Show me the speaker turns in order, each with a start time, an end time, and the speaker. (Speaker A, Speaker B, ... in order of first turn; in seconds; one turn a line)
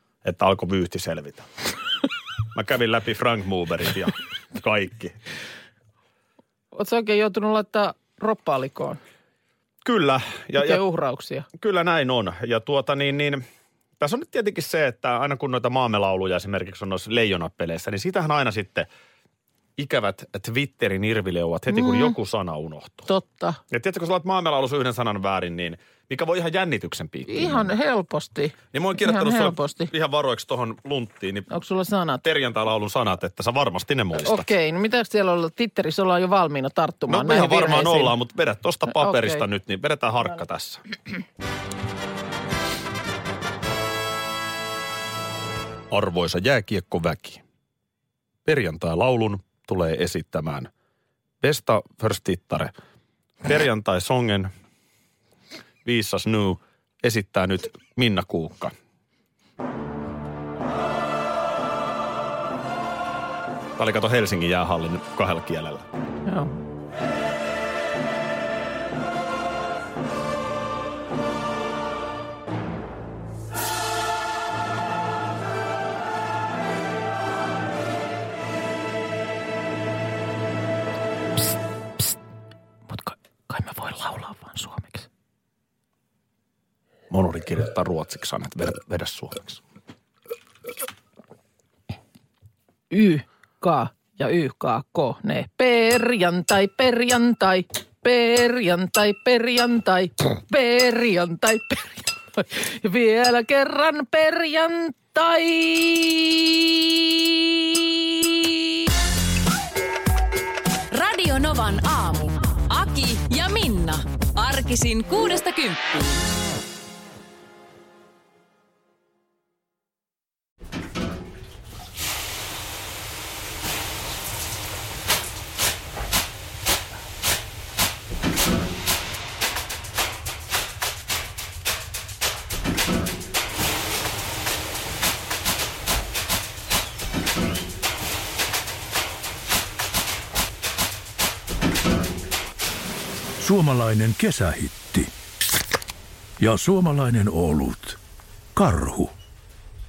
Speaker A: 0.2-1.5
Speaker A: 2.5-5.2
Speaker B: 6.7-9.0
Speaker A: 9.8-10.8
Speaker B: 10.6-11.5
Speaker A: 11.5-13.4
Speaker A: 14.0-18.9
Speaker A: 19.8-23.1
Speaker B: 21.7-22.1
Speaker B: 23.1-23.6
Speaker A: 23.7-27.7
Speaker B: 27.3-29.9
Speaker A: 28.7-31.5
Speaker B: 31.5-32.2
Speaker A: 32.2-34.5
Speaker B: 34.2-38.1
Speaker A: 37.1-40.8
Speaker B: 38.9-39.4
Speaker A: 45.9-47.4
Speaker A: 48.4-50.7
Speaker A: 51.4-52.7
Speaker A: 53.4-54.5
Speaker A: 55.8-58.7
Speaker A: 63.8-65.9
Speaker B: 66.2-66.5
Speaker B: 82.9-85.1
Speaker A: 87.1-89.6
Speaker B: 92.9-106.6
Speaker C: 110.9-116.2
Speaker D: 143.4-145.1
Speaker D: 146.4-148.0
Speaker D: 148.6-149.1